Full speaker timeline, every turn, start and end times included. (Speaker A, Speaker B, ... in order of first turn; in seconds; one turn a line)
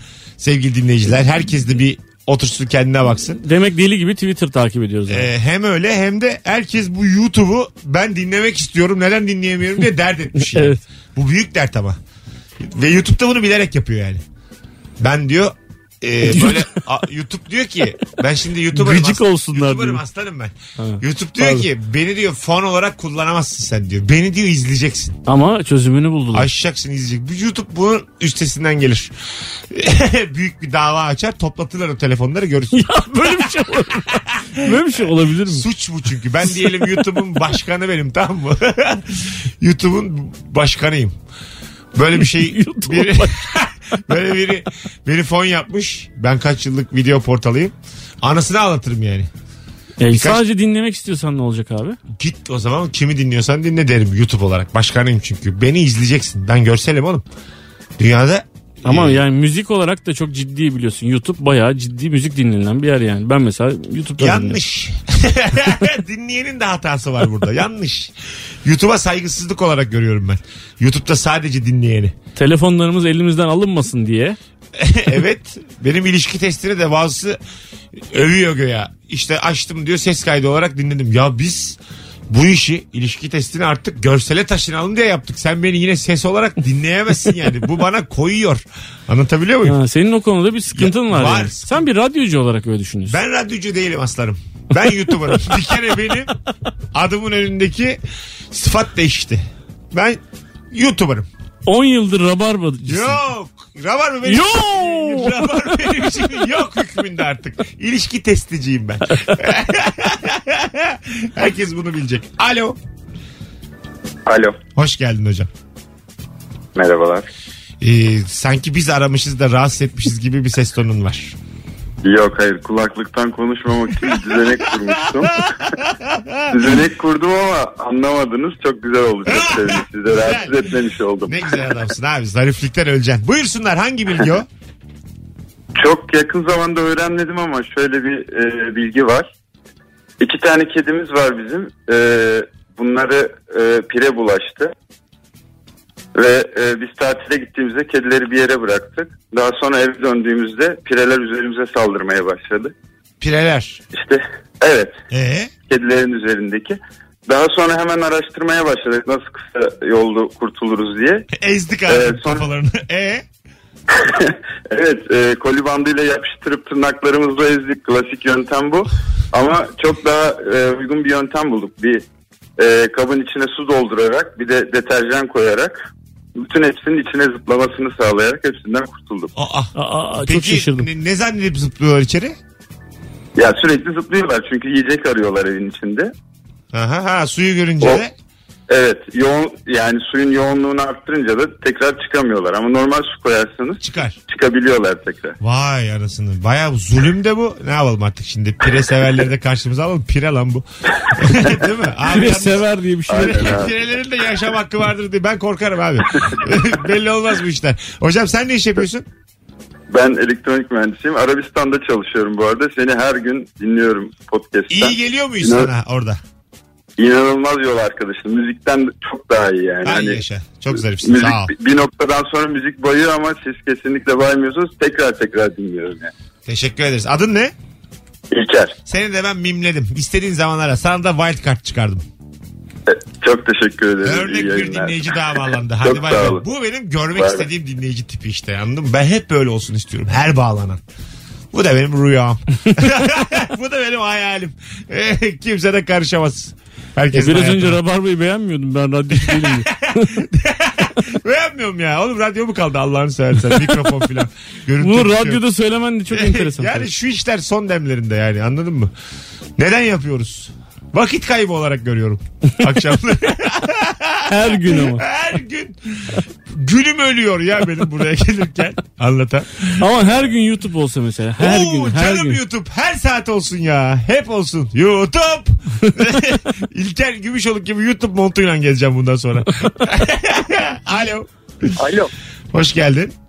Speaker A: 0.4-3.4
Speaker B: 3.4-5.3
Speaker A: 5.1-12.0
Speaker B: 10.5-10.8
Speaker A: 12.6-14.2
Speaker A: 15.0-25.2
Speaker B: 16.3-16.7
Speaker B: 18.7-20.0
Speaker B: 20.8-21.7
Speaker B: 25.3-26.5
Speaker A: 26.3-33.5
Speaker B: 32.7-35.6
Speaker A: 34.2-41.1
Speaker A: 42.0-49.3
Speaker B: 42.2-43.4
Speaker B: 50.0-52.0
Speaker A: 50.1-50.4
Speaker A: 52.1-57.2
Speaker A: 58.0-59.2
Speaker B: 58.8-64.6
Speaker A: 64.2-68.1
Speaker A: 68.6-72.2
Speaker B: 72.4-74.4
Speaker A: 74.8-77.4
Speaker A: 78.0-89.8
Speaker B: 89.7-93.2
Speaker A: 90.8-91.8
Speaker A: 93.1-96.4
Speaker A: 96.9-98.0
Speaker A: 98.5-101.3
Speaker B: 101.7-103.2
Speaker A: 102.9-112.8
Speaker B: 104.2-105.8
Speaker C: 114.3-114.6
Speaker A: 114.8-115.5
Speaker C: 116.8-117.3
Speaker A: 117.8-121.4
Speaker C: 122.0-125.4
Speaker A: 124.0-124.4
Speaker A: 125.1-126.7
Speaker C: 126.5-131.9
Speaker A: 129.3-130.6
Speaker A: 131.3-134.5
Speaker C: 135.8-139.3
Speaker C: 140.2-144.7
Speaker C: 146.2-152.7
Speaker A: 153.2-153.8
Speaker C: 153.9-155.0
Speaker A: 155.1-155.5
Speaker C: 155.7-161.3
Speaker A: 161.3-163.2
Speaker C: 161.9-162.5
Speaker C: 164.0-172.0
Speaker C: 172.6-175.8
Speaker C: 176.4-179.3
Speaker A: 179.3-182.4
Speaker B: 179.8-180.9
Speaker C: 183.4-186.1
Speaker A: 186.7-188.1
Speaker C: 188.7-195.4
Speaker A: 193.8-194.2
Speaker A: 195.4-209.1
Speaker B: 202.1-203.7
Speaker C: 203.1-203.8
Speaker C: 209.9-215.7
Speaker A: 214.7-216.2
Speaker C: 217.0-220.2
Speaker A: 219.8-221.5
Speaker C: 220.8-226.1
Speaker A: 226.5-227.5
Speaker C: 228.3-228.8
Speaker A: 228.9-232.0
Speaker C: 232.9-236.4
Speaker A: 234.0-240.8
Speaker C: 237.2-237.5
Speaker A: 241.5-247.8
Speaker B: 247.2-250.2
Speaker A: 249.1-255.4
Speaker B: 254.8-256.9
Speaker A: 256.1-258.9
Speaker A: 259.6-269.9
Speaker B: 264.3-265.1
Speaker B: 269.8-272.4
Speaker A: 271.4-281.8
Speaker A: 282.5-283.1